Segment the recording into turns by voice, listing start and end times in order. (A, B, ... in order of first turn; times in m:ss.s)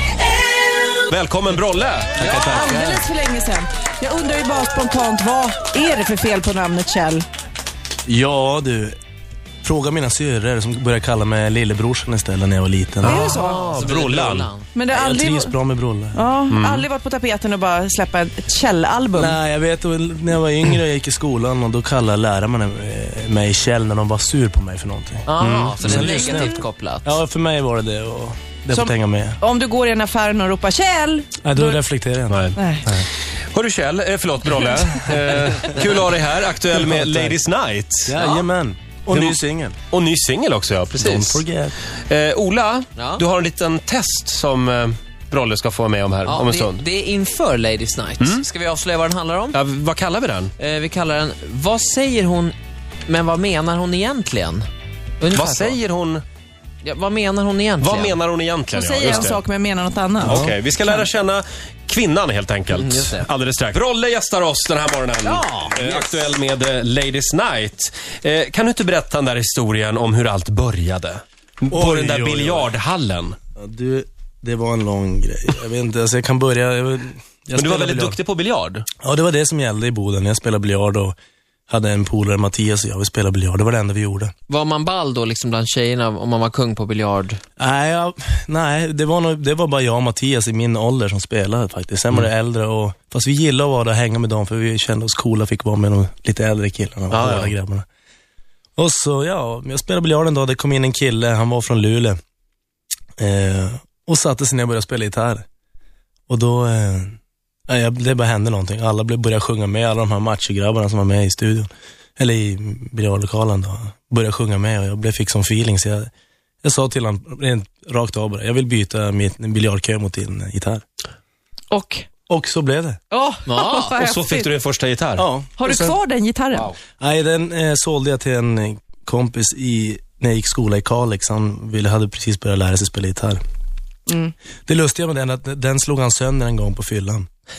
0:01.1-0:02.8 A
0:02.2-0:03.0 B
0:02.3-0:07.2 C
0:08.0-0:09.0 D
0:09.6-0:13.3 D
0:13.0-0:13.6 C
0:13.0-0:14.5 A
0:13.2-0:14.7 B
0:14.7-0:15.6 C
0:14.9-0:16.2 D
0:16.1-0:19.4 C
0:16.5-0:16.8 A
0:19.1-0:29.4 D
0:25.2-0:27.2 B
0:28.7-0:31.8 C
0:31.4-0:33.1 D
0:32.3-0:32.6 A
0:32.5-0:32.9 C
0:33.4-0:38.2 A
0:36.7-0:37.4 D
0:38.0-0:39.8 D
0:38.2-0:38.4 B
0:39.1-0:46.8 A
0:41.0-0:41.8 D
0:43.0-0:43.2 B
0:46.2-0:49.6 B
0:48.2-0:48.4 A
0:49.5-0:50.5 A
0:50.6-0:52.5 B
0:53.1-0:54.6 B
0:55.2-0:55.8 B
0:55.3-0:56.2 A
0:56.8-0:58.2 B
0:57.8-0:59.4 A
0:58.7-1:01.1 C
0:59.0-0:59.3 B
1:00.2-1:00.6 D
1:00.2-1:13.4 A
1:02.7-1:03.3 B
1:05.2-1:06.1 B
1:11.7-1:12.7 D
1:13.6-1:18.2 D
1:17.6-1:18.9 A
1:19.0-1:21.2 D
1:21.7-1:24.3 D
1:24.5-1:27.4 B
1:27.6-1:37.8 D
1:37.1-1:37.5 A
1:38.8-1:42.2 D
1:43.2-1:45.4 D
1:46.3-1:47.2 D
1:47.7-1:56.1 D
1:56.6-2:00.8 D
2:01.7-2:02.1 C
2:02.3-2:03.0 D
2:03.1-2:04.5 C
2:03.4-2:04.0 B
2:04.0-2:05.3 A
2:05.2-2:06.0 D
2:05.6-2:06.7 C
2:07.0-2:13.4 D
2:14.1-2:14.3 C
2:14.6-2:17.3 D